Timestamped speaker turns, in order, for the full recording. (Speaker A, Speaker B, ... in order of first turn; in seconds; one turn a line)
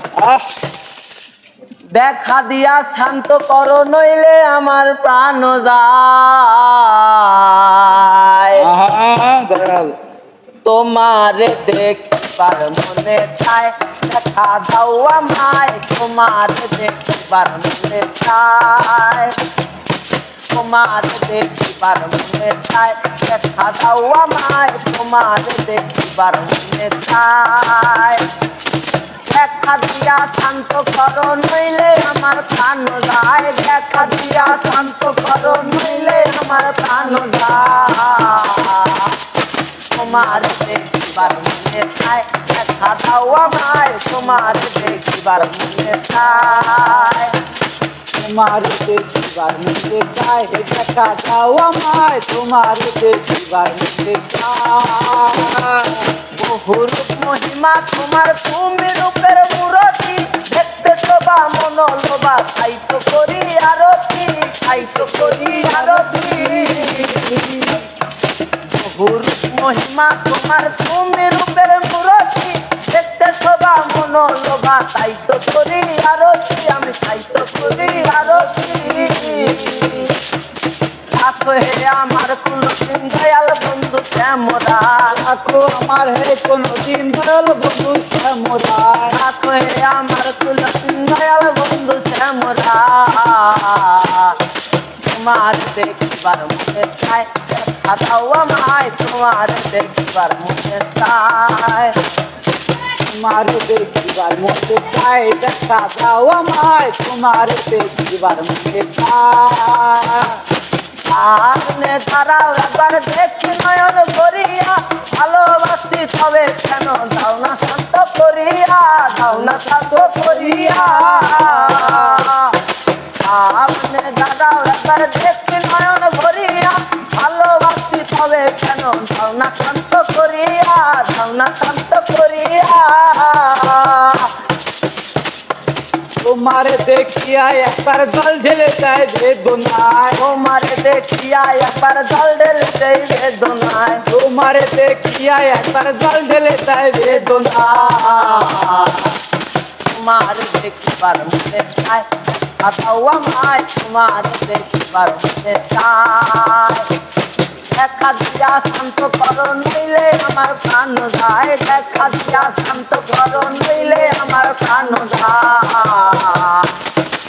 Speaker A: 0.2-0.4
Speaker B: 1.9-8.7
Speaker A: 8.6-9.9
Speaker B: 10.7-19.4
Speaker B: 20.5-28.3
Speaker B: 29.2-39.1
Speaker B: 39.9-47.4
Speaker A: 46.5-46.9
Speaker A: 48.1-56.1
Speaker B: 56.4-67.3
Speaker A: 64.8-67.8
Speaker B: 68.7-80.2
Speaker A: 77.8-80.1
Speaker B: 81.1-85.2
Speaker A: 85.1-89.2
Speaker B: 89.1-94.4
Speaker B: 95.0-102.0
Speaker A: 103.0-110.4
Speaker B: 111.1-122.6
Speaker A: 120.1-122.3
Speaker B: 123.2-134.3
Speaker A: 136.2-140.2
Speaker B: 140.2-144.0
Speaker A: 144.1-149.1
Speaker B: 147.0-149.1
Speaker B: 149.8-156.9
Speaker B: 157.7-166.8